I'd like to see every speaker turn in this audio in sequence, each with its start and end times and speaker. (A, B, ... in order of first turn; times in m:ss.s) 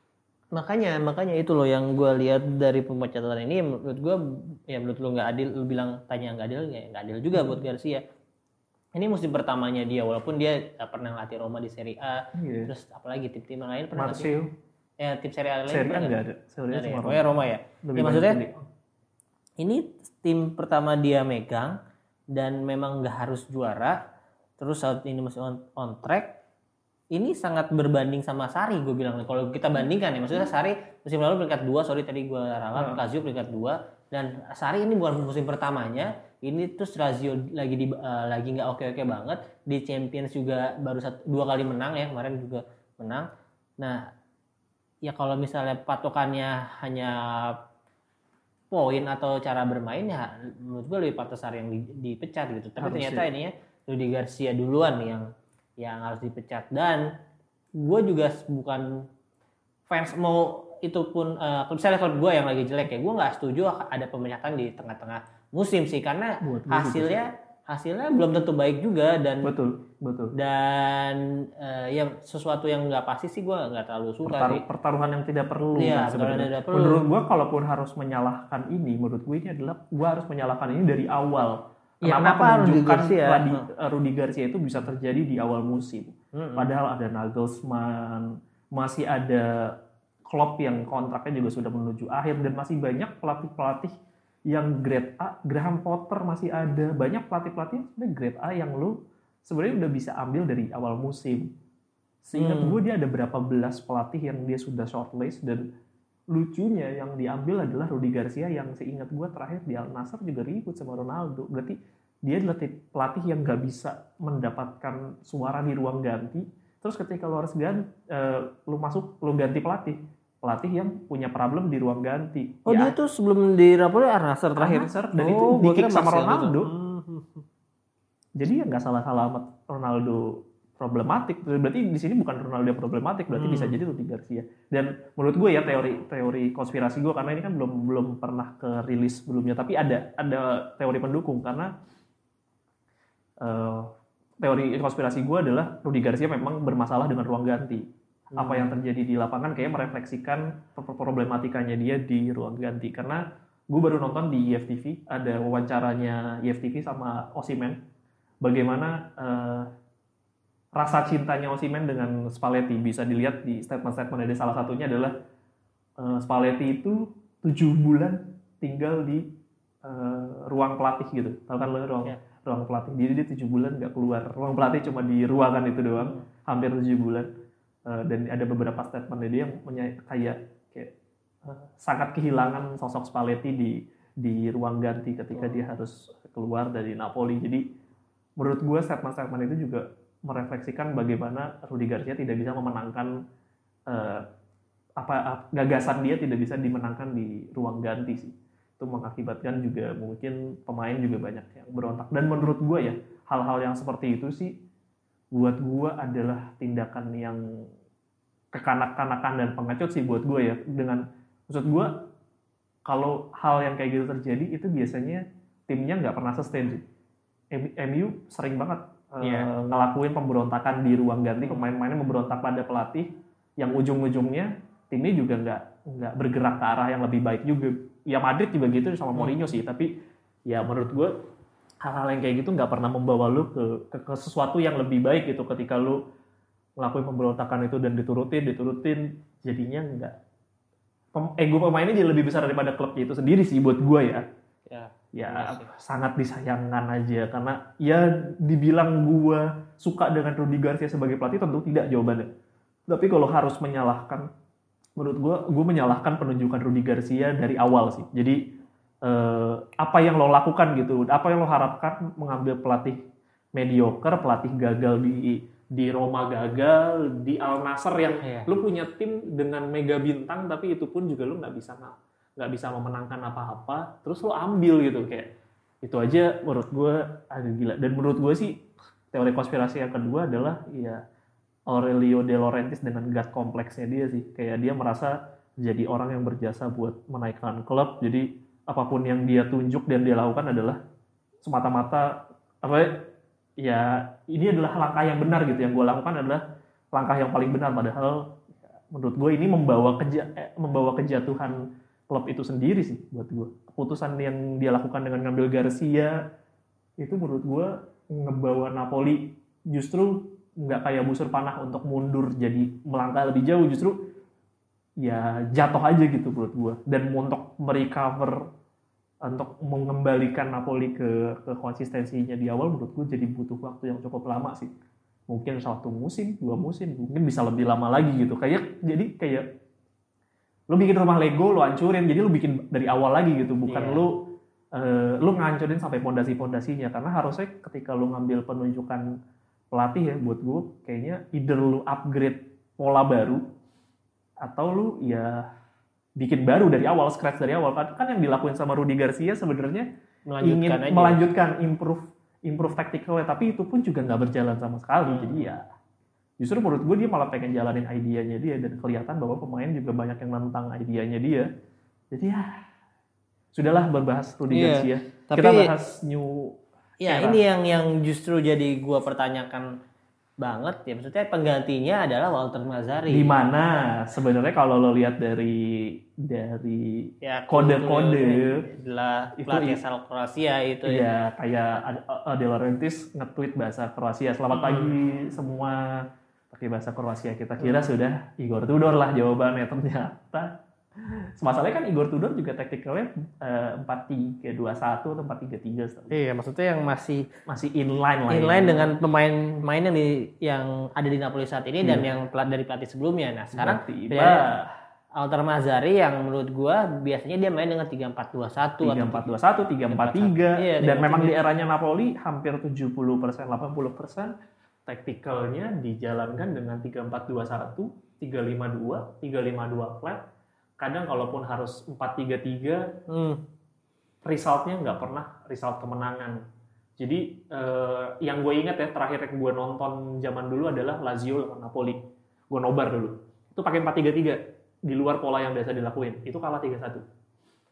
0:00.5-0:08.0 A
0:08.9-0:14.3 A
0:12.3-0:12.7 B
0:14.0-0:14.5 B
0:15.0-0:16.2 A
0:15.7-0:17.2 B
0:16.7-0:18.4 A
0:17.8-0:18.6 B
0:19.6-0:21.8 A
0:22.3-0:24.0 A
0:24.6-0:26.4 A
0:27.1-0:43.2 A
0:32.7-0:33.0 B
0:43.8-0:44.1 A
0:45.0-0:47.6 A
0:48.7-0:57.1 A
0:52.8-0:53.3 B
0:57.8-0:59.1 A
0:59.9-1:09.5 A
1:06.4-1:07.2 B
1:09.4-1:10.3 B
1:10.3-1:14.6 A
1:14.2-1:29.7 B
1:15.8-1:17.0 A
1:22.0-1:23.6 A
1:26.3-1:26.7 A
1:30.3-1:33.9 B
1:34.5-1:41.5 B
1:42.2-1:45.6 B
1:42.4-1:42.8 A
1:46.3-2:02.9 B
2:02.6-2:07.4 A
2:04.6-2:06.7 B
2:08.4-2:21.7 B
2:13.3-2:13.8 A
2:23.4-2:37.8 B
2:28.3-2:28.6 A
2:38.4-2:39.7 B
2:40.8-2:45.1 B
2:46.0-2:49.3 B
2:49.8-2:57.3 B
2:56.0-2:56.2 A
2:57.8-3:00.9 B
3:01.4-3:07.6 B
3:08.4-3:13.1 B
3:13.9-3:14.3 B
3:15.0-3:24.6 B
3:25.3-3:27.4 B
3:28.5-3:32.0 B
3:32.8-3:36.8 B
3:37.5-3:49.9 B
3:39.2-3:39.5 A
3:50.5-3:51.1 B
3:51.8-3:56.0 B
3:56.8-4:00.2 B
4:01.1-4:04.2 B
4:04.7-4:05.7 A
4:05.1-4:12.3 B
4:12.9-4:14.3 B
4:15.0-4:18.5 B
4:19.0-4:23.0 B
4:23.5-4:35.3 B
4:28.2-4:28.5 A
4:35.8-4:41.0 B
4:41.7-4:50.8 B
4:51.4-4:56.4 B
4:56.9-5:06.2 B
5:07.0-5:14.0 B
5:15.0-5:18.4 B
5:19.2-5:24.7 B
5:25.3-5:29.4 B
5:30.7-5:39.0 B
5:33.6-5:34.0 A
5:39.7-5:43.4 B
5:44.4-5:45.4 B
5:46.2-5:49.8 B
5:50.3-5:51.2 A
5:50.4-5:55.6 B
5:55.1-5:55.4 A
5:56.4-6:01.5 B
6:02.1-6:02.4 B
6:03.5-6:07.4 B
6:04.5-6:05.7 A
6:07.0-6:09.7 A
6:10.4-6:13.3 A
6:13.1-6:18.6 B
6:17.2-6:21.0 A
6:19.4-6:19.8 B
6:20.8-6:36.1 B
6:24.5-6:24.9 A
6:27.6-6:27.9 A
6:36.1-6:37.3 A
6:37.5-6:38.9 B
6:38.3-6:44.4 A
6:41.8-6:42.1 B
6:43.5-6:44.7 B
6:45.2-6:49.3 A
6:48.8-6:54.3 B
6:49.9-6:51.4 A
6:54.8-7:00.2 B
7:00.8-7:02.9 B
7:03.1-7:03.4 A
7:04.2-7:06.4 B
7:07.0-7:17.0 B